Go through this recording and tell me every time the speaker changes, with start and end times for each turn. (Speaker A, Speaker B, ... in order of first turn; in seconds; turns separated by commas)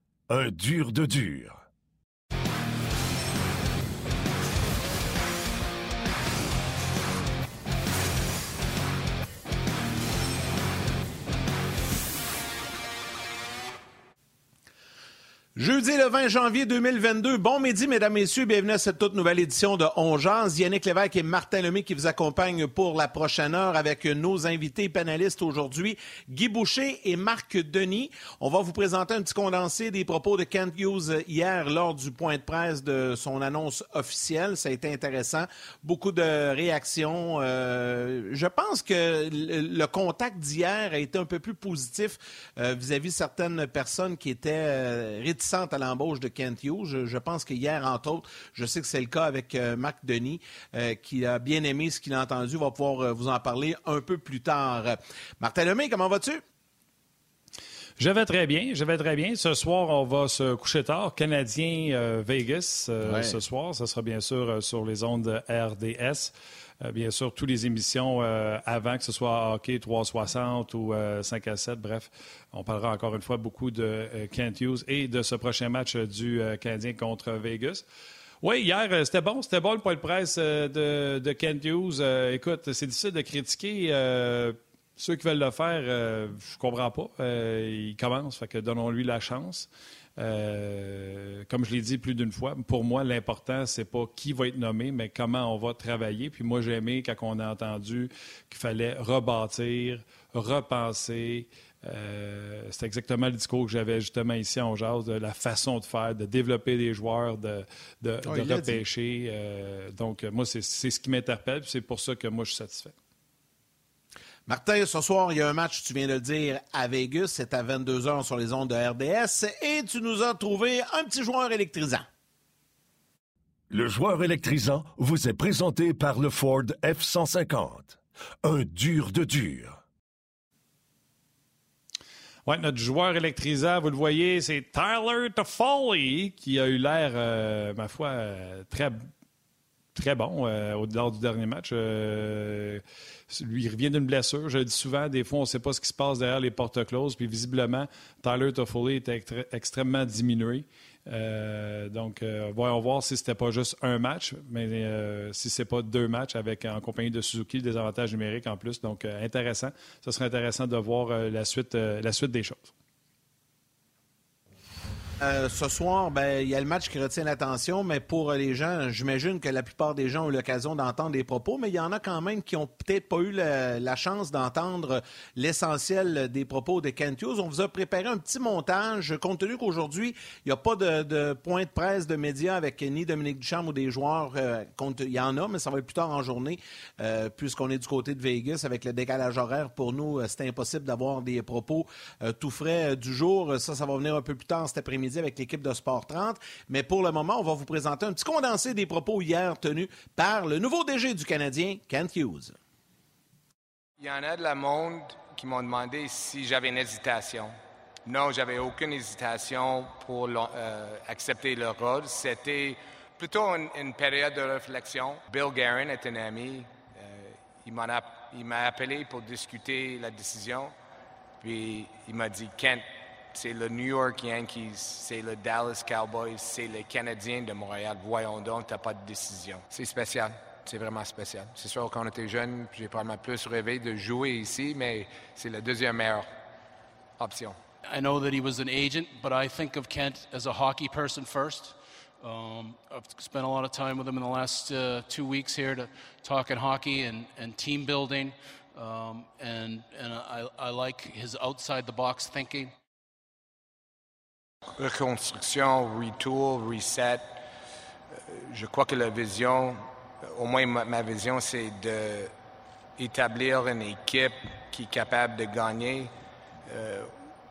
Speaker A: 0.3-1.6, Speaker B: 15.6-56.4, Speaker C: 58.0-77.8, Speaker B: 63.0-63.4, Speaker C: 78.4-112.9, Speaker B: 108.2-108.8, Speaker B: 114.5-122.0, Speaker A: 123.7-129.8, Speaker C: 132.4-139.1, Speaker C: 139.9-162.7, Speaker B: 165.2-202.6, Speaker D: 204.0-207.5, Speaker D: 208.0-220.7, Speaker D: 221.4-236.3, Speaker D: 237.2-237.6, Speaker E: 237.8-252.7, Speaker D: 254.8-257.4, Speaker D: 258.1-262.3, Speaker D: 263.0-266.1, Speaker D: 266.6-267.1